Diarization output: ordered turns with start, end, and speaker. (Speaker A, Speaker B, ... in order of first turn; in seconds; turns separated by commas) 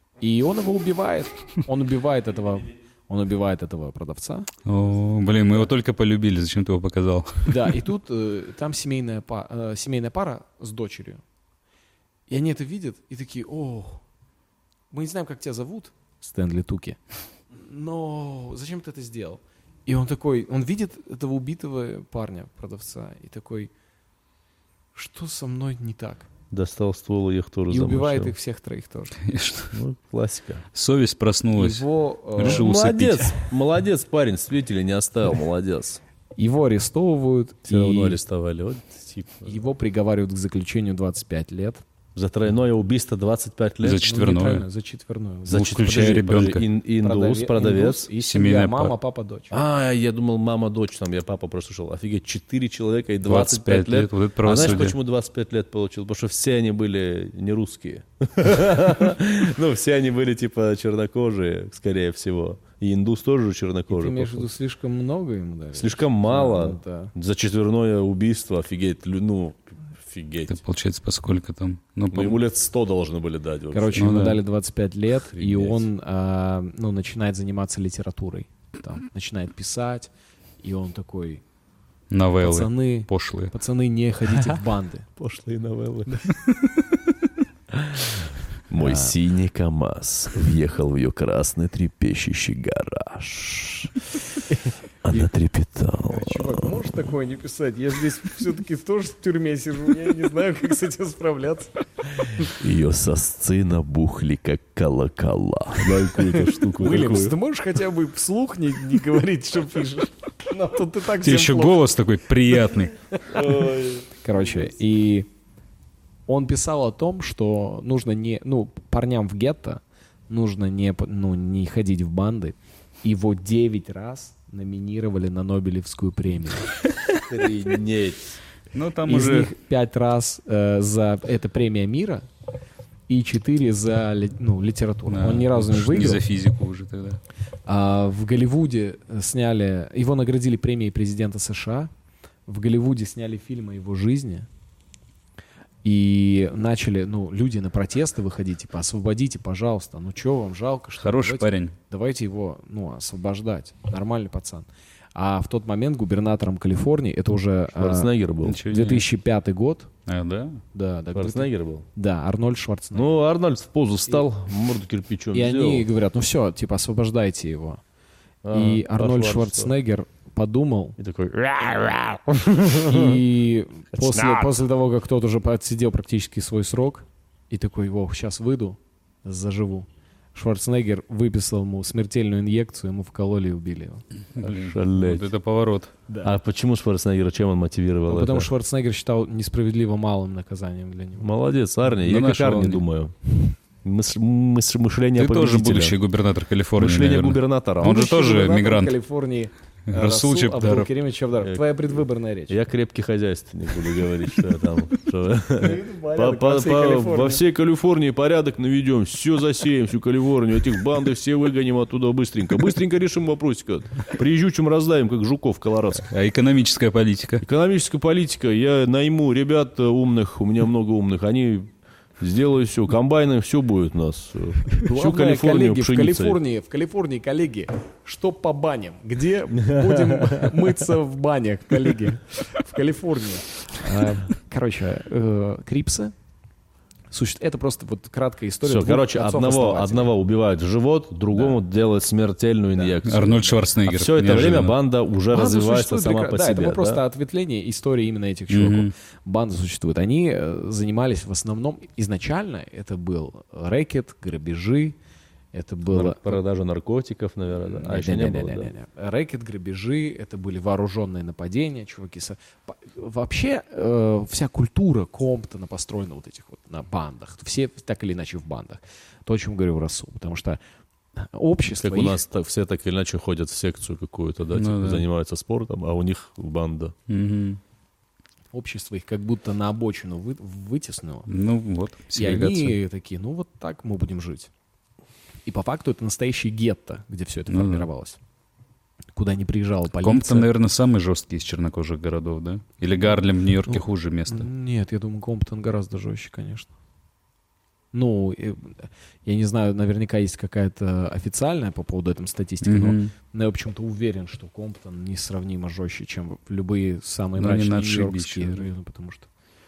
Speaker A: 0.2-4.5, Speaker B: 4.7-7.7, Speaker A: 7.5-11.2, Speaker A: 12.3-14.0, Speaker A: 14.9-17.0, Speaker A: 17.5-23.7, Speaker A: 24.9-26.3, Speaker C: 26.5-28.3, Speaker A: 27.7-29.2, Speaker B: 29.2-29.7, Speaker C: 29.7-30.6, Speaker B: 30.7-33.4, Speaker A: 31.6-32.7, Speaker C: 32.4-36.0, Speaker A: 36.4-38.2, Speaker C: 37.7-39.5, Speaker A: 39.5-41.8, Speaker C: 42.1-44.0, Speaker B: 43.8-44.6, Speaker A: 44.0-46.1, Speaker C: 45.5-48.1, Speaker B: 45.5-46.7, Speaker A: 47.0-49.5, Speaker B: 48.2-48.9, Speaker C: 49.5-64.5, Speaker B: 53.2-54.9, Speaker A: 63.9-67.1, Speaker C: 65.7-70.6, Speaker B: 70.5-72.4, Speaker C: 72.1-74.1, Speaker A: 73.7-80.1, Speaker B: 73.9-74.4, Speaker C: 75.3-75.8, Speaker A: 80.6-81.4, Speaker B: 82.1-83.5, Speaker A: 82.4-85.1, Speaker C: 85.2-86.2, Speaker C: 87.7-94.0, Speaker A: 88.8-89.1, Speaker C: 95.0-96.7, Speaker A: 96.0-102.4, Speaker C: 102.5-107.3, Speaker A: 106.2-111.8, Speaker B: 111.2-112.9, Speaker A: 113.1-113.6, Speaker C: 113.3-114.7, Speaker A: 114.2-115.3, Speaker A: 116.3-126.8, Speaker C: 127.2-128.4, Speaker B: 128.7-129.5, Speaker A: 129.1-132.2, Speaker A: 133.1-136.2, Speaker B: 135.1-137.2, Speaker A: 137.7-141.9, Speaker A: 142.5-144.5, Speaker A: 145.8-158.1, Speaker B: 151.0-151.7, Speaker C: 157.7-158.6, Speaker B: 158.4-159.1, Speaker A: 158.7-159.9, Speaker B: 160.1-160.6, Speaker A: 160.7-163.1, Speaker C: 161.1-161.8, Speaker C: 162.9-165.9, Speaker A: 165.3-167.8, Speaker C: 168.4-169.7, Speaker A: 168.5-171.0, Speaker C: 171.0-173.2, Speaker A: 172.6-184.0, Speaker C: 173.9-174.5, Speaker B: 184.4-185.9, Speaker C: 184.4-185.2, Speaker C: 186.2-188.5, Speaker A: 188.1-191.3, Speaker C: 191.2-196.0, Speaker B: 192.0-192.8, Speaker B: 195.2-198.9, Speaker C: 196.8-197.9, Speaker A: 197.8-202.6, Speaker B: 199.9-200.9, Speaker C: 201.4-216.1, Speaker A: 205.6-207.4, Speaker B: 216.1-217.4, Speaker C: 217.4-226.4, Speaker A: 224.8-236.1, Speaker C: 229.7-230.5, Speaker A: 237.1-240.1, Speaker C: 238.6-247.0, Speaker A: 242.8-243.4, Speaker B: 243.0-244.7, Speaker A: 245.3-255.0, Speaker B: 248.5-248.9, Speaker A: 255.5-256.4, Speaker C: 255.9-258.7, Speaker A: 257.7-270.6, Speaker A: 271.1-272.2, Speaker C: 271.8-276.9, Speaker B: 274.6-275.0, Speaker B: 277.1-277.6, Speaker A: 278.5-281.3, Speaker B: 281.3-282.7, Speaker A: 282.1-284.5, Speaker A: 285.4-288.2, Speaker B: 287.5-287.9, Speaker A: 289.1-290.5, Speaker B: 289.9-294.5, Speaker A: 293.6-296.7, Speaker A: 297.9-309.3, Speaker B: 302.6-303.1, Speaker B: 307.4-308.6